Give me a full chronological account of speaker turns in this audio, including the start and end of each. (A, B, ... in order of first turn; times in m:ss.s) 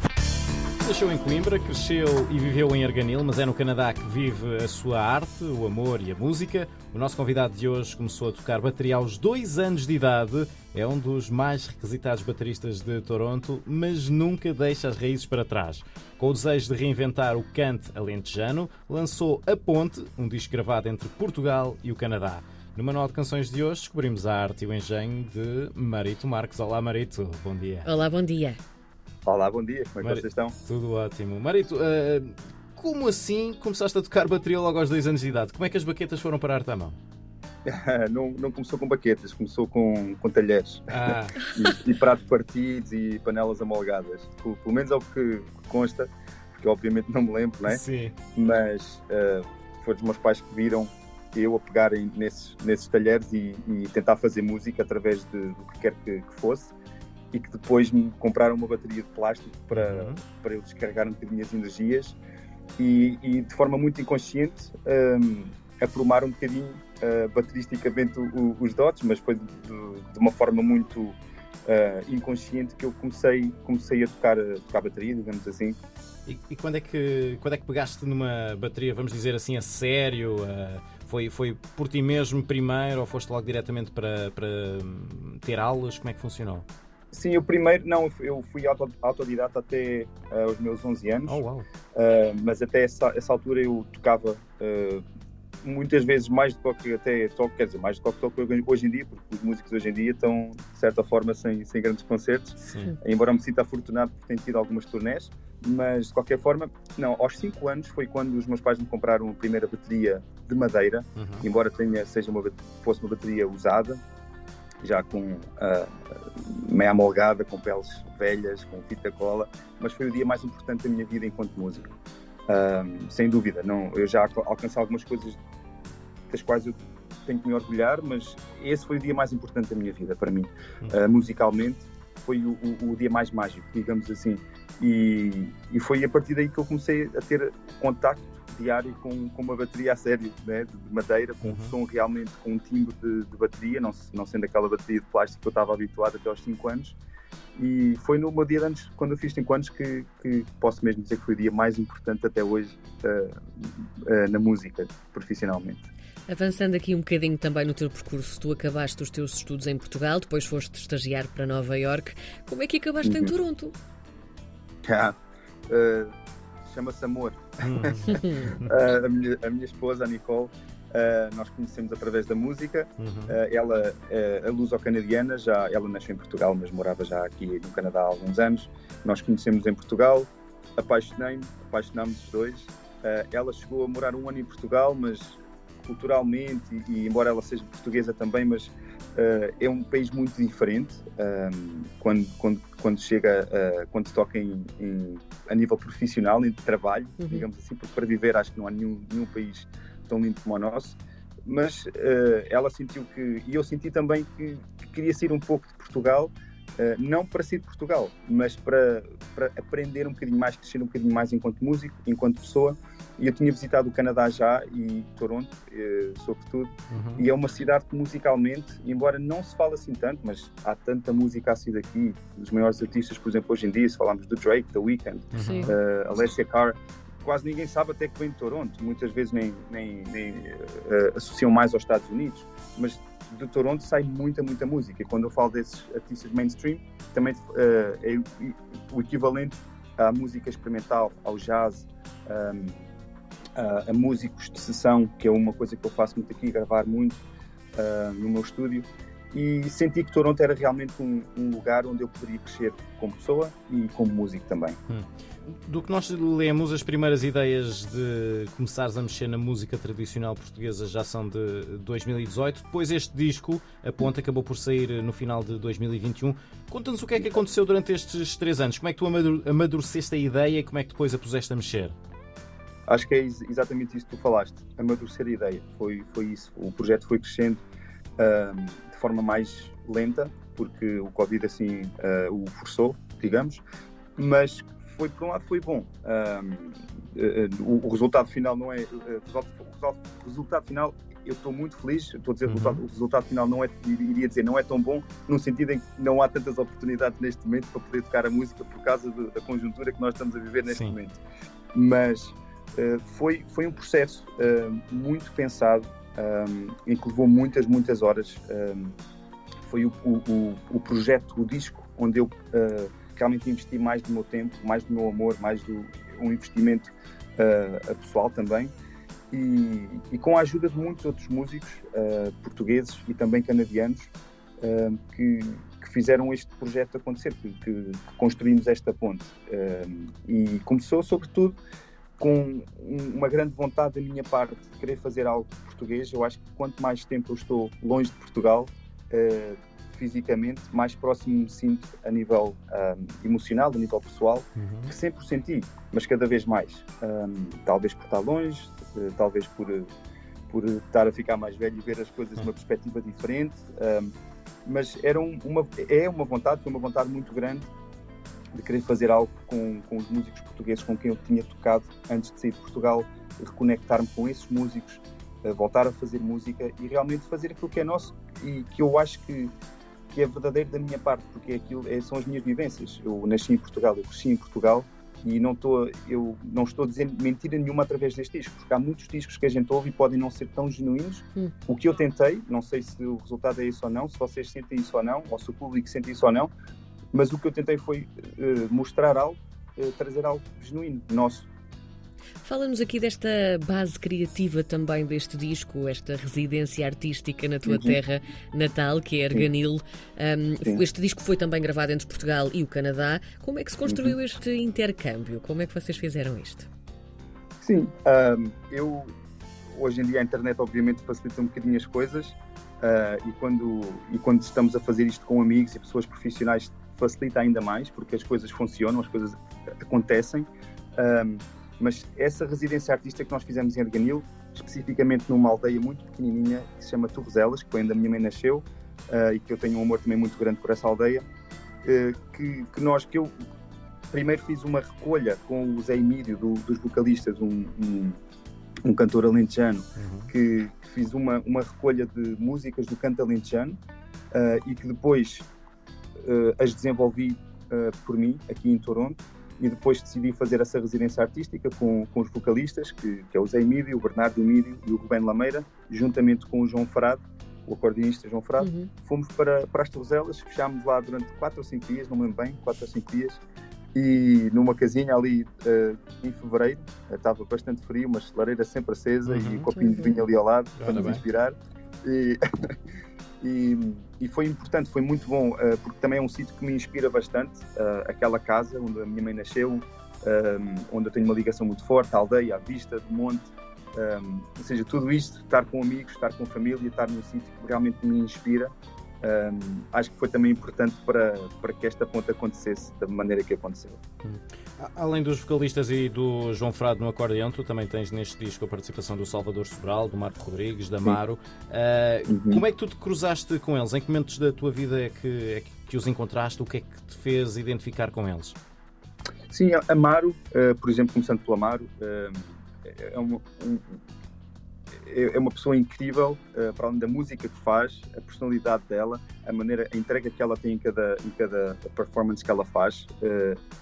0:00.8-0:27.9 A
0:27.8-0:28.6 B
0:29.2-0:30.6 C
0:30.0-0:37.0 A
0:37.6-0:47.8 C
0:40.9-0:41.4 A
0:47.6-0:48.2 A
0:48.3-0:56.7 C
0:57.3-1:02.2 C
0:59.7-1:00.2 A
1:02.8-1:15.8 C
1:16.2-1:26.6 A
1:27.1-1:31.4 C
1:31.2-1:31.6 A
1:31.9-1:35.0 C
1:35.6-1:54.0 C
1:42.6-1:42.9 A
1:51.2-1:51.5 A
1:54.8-2:01.9 C
2:02.5-2:05.4 C
2:06.3-2:27.0 C
2:21.4-2:21.7 A
2:27.6-2:35.9 C
2:36.3-2:43.7 B
2:43.0-2:43.4 C
2:44.8-2:45.2 C
2:45.7-2:46.1 C
2:46.6-4:02.8 C
2:47.6-2:48.7 A
2:53.0-2:53.4 A
3:17.2-3:17.4 B
3:36.9-3:37.2 A
3:45.3-3:45.7 A
3:45.4-3:45.7 B
4:03.6-4:07.2 C
4:07.7-4:14.8 C
4:14.9-4:31.9 A
4:32.9-4:37.6 C
4:38.2-4:43.6 C
4:44.2-5:01.2 C
4:52.4-4:52.8 A
5:00.7-5:01.0 A
5:01.7-5:09.0 C
5:09.6-5:18.7 C
5:19.3-5:31.6 C
5:32.2-5:49.9 C
5:44.6-5:44.9 A
5:50.5-5:54.1 C
5:54.6-5:57.7 C
5:58.5-6:09.5 C
6:10.1-6:26.5 C
6:27.1-6:31.5 C
6:32.4-6:46.7 B
6:37.6-6:38.0 C
6:43.8-6:44.2 C
6:47.6-6:49.1 C
6:49.7-7:11.2 C
7:11.8-7:13.4 C
7:14.1-7:18.2 C
7:18.8-7:23.8 C
7:20.0-7:20.3 A
7:24.3-7:25.5 C
7:26.2-7:43.4 C
7:38.6-7:38.9 B
7:43.9-7:52.8 C
7:49.2-7:49.7 A
7:49.7-7:50.2 B
7:50.8-7:51.2 A
7:53.4-8:14.0 C
8:14.2-8:28.6 A
8:22.3-8:22.6 C
8:29.5-8:34.0 C
8:35.0-8:43.6 C